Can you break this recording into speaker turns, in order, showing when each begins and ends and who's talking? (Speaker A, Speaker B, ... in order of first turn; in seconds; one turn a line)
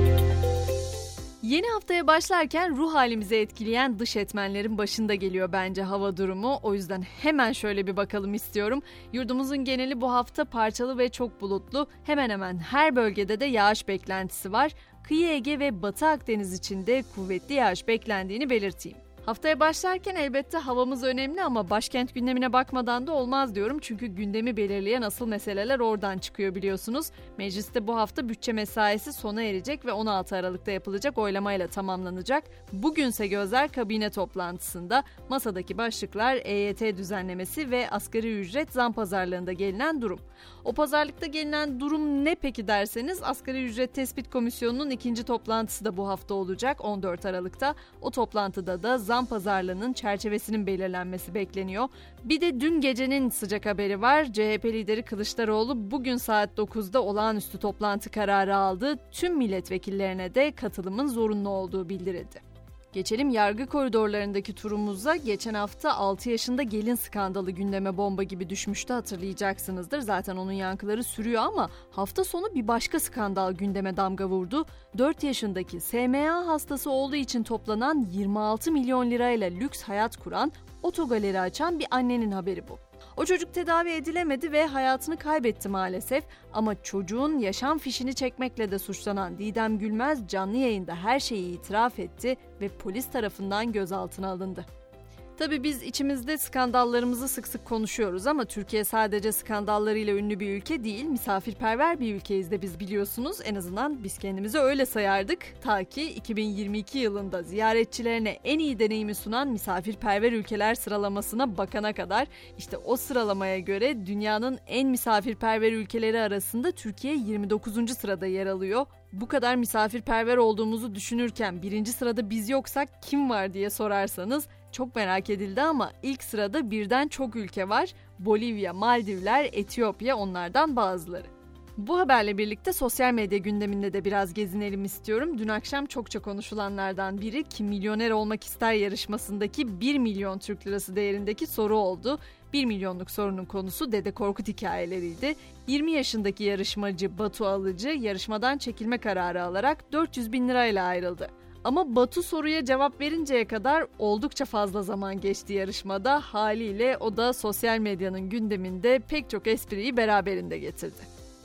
Speaker A: 1.4-94.7
Speaker A: 95.4-161.1